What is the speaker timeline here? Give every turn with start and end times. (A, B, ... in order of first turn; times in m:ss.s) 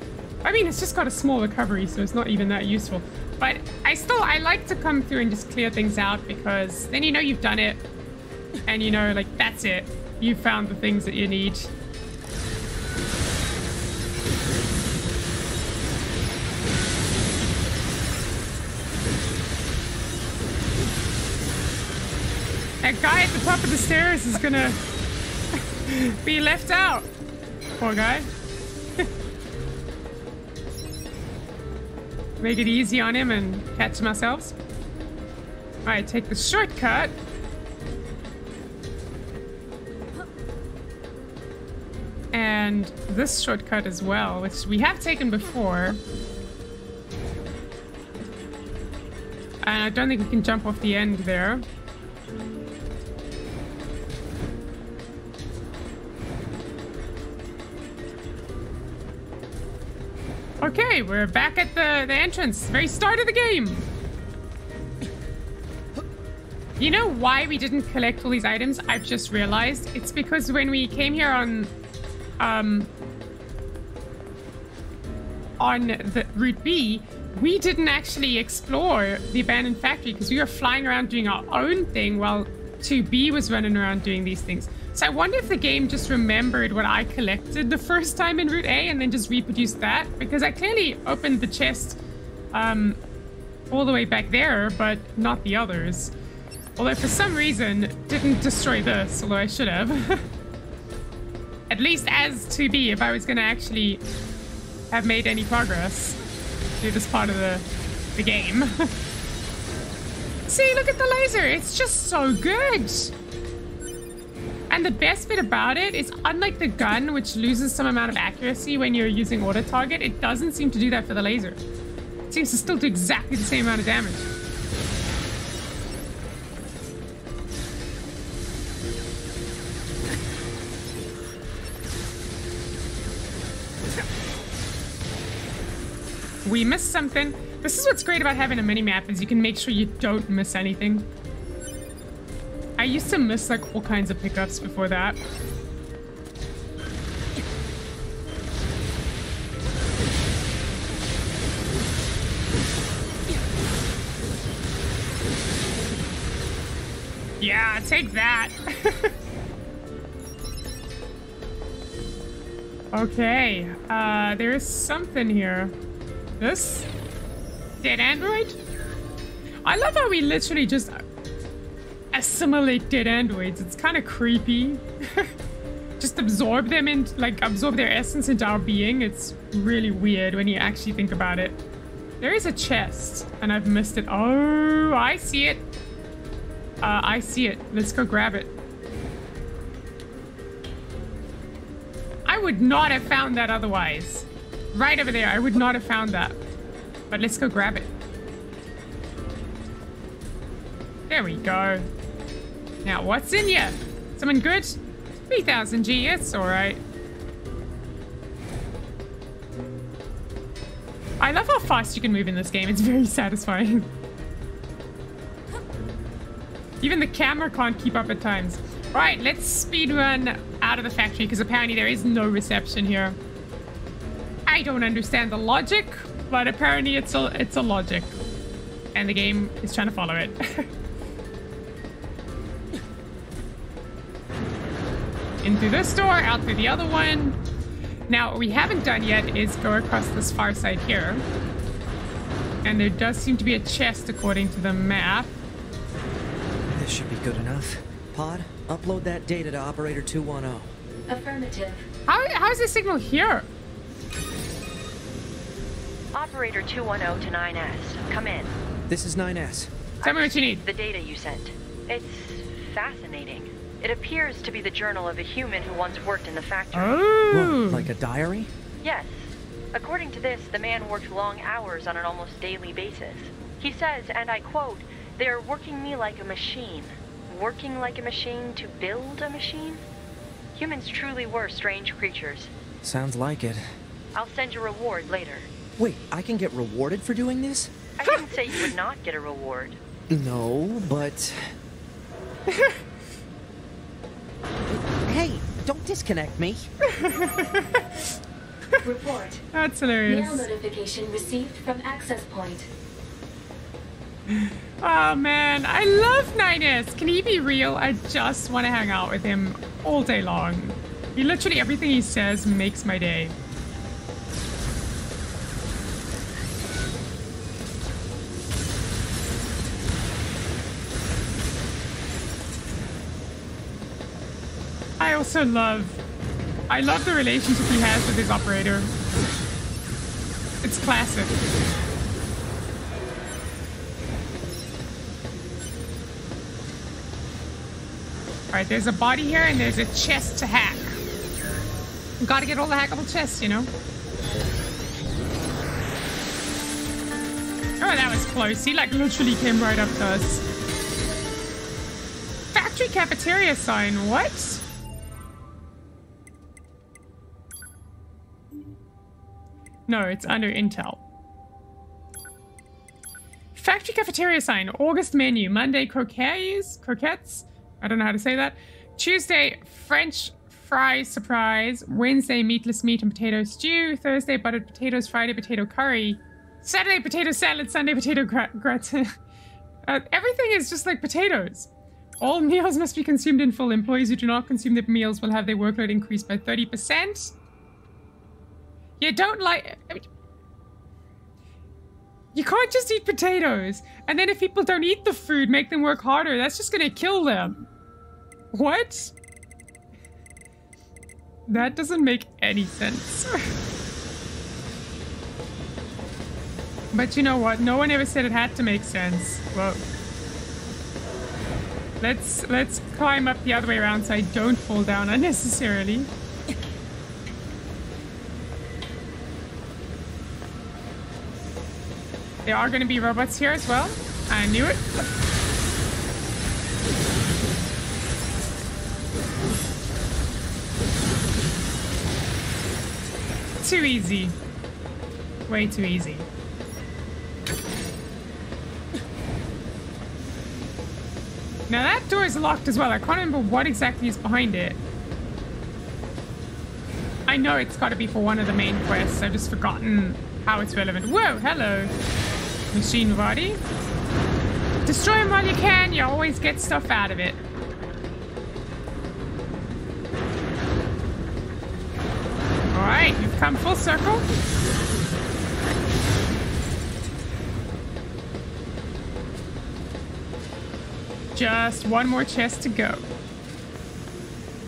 0:00.4-0:07.8 A
0:08.6-0:11.7 A
0:22.8-0:24.8 A
0:25.8-0:27.1 A
0:27.8-0:28.3 A
0:32.4-0:34.5 A
0:35.8-0:37.2 A
0:42.3-0:46.0 A
0:49.6-0:51.6 A
1:00.6-1:03.9 A
1:06.8-1:11.7 A
1:12.4-1:12.9 A
1:15.6-1:32.0 A
1:32.5-1:33.0 A
1:33.7-1:36.1 A
1:36.8-1:40.3 A
1:41.7-1:44.0 A
1:44.9-1:46.2 A
1:46.8-1:48.9 A
1:50.5-1:53.1 A
1:54.7-2:01.6 A
2:02.3-2:04.3 A
2:16.4-2:21.1 A
2:22.8-2:25.2 A
2:37.4-2:39.1 A
2:42.9-2:45.7 A
2:46.4-2:46.9 A
2:47.8-2:48.6 A
2:49.6-2:51.0 A
2:52.1-2:55.3 A
2:56.0-3:01.6 A
3:02.2-3:05.6 A
3:06.8-3:08.5 A
3:12.2-3:16.4 A
3:17.1-3:17.9 A
3:21.1-3:21.9 A
3:22.8-3:26.8 A
3:31.2-3:33.9 A
3:36.8-3:43.2 A
3:44.5-3:48.2 A
3:48.9-3:50.7 A
3:55.4-3:57.4 A
3:58.1-4:01.2 A
4:02.6-4:05.3 A
4:06.7-4:10.8 B
4:11.1-4:11.8 C
4:12.1-4:13.5 A
4:16.1-4:18.6 D
4:18.9-4:19.8 B
4:20.0-4:27.0 D
4:20.0-4:20.6 A
4:26.7-4:27.9 A
4:27.3-4:28.5 B
4:28.8-4:39.8 D
4:40.5-4:42.5 D
4:42.8-4:43.6 B
4:44.1-4:45.5 D
4:45.8-4:47.7 B
4:48.0-4:49.8 D
4:48.0-4:48.7 A
4:50.1-4:51.6 B
4:52.5-4:52.8 A
4:54.6-4:56.7 B
4:56.8-4:58.0 A
4:58.8-4:59.4 C
4:59.5-5:00.4 A
5:00.0-5:02.7 C
5:04.3-5:13.4 A
5:25.0-5:26.0 A
5:26.7-5:28.9 A
5:30.6-5:31.4 A
5:38.5-5:41.0 A
5:42.2-5:43.7 A
5:47.8-5:50.4 A
5:52.5-5:54.6 A
5:59.9-6:01.0 A
6:03.5-6:19.1 A
6:19.8-6:27.3 A
6:29.0-6:30.0 A
6:32.3-6:37.6 A
6:38.5-6:39.1 A
6:41.5-6:43.3 A
6:46.9-6:49.8 A
6:52.0-6:56.1 A
7:02.4-7:04.9 A
7:13.6-7:14.4 A
7:15.5-7:16.3 A
7:21.7-7:24.8 A
7:27.3-7:31.9 A
7:32.7-7:33.6 A
7:34.8-7:37.4 A
7:42.7-7:44.2 A
7:51.3-7:53.1 A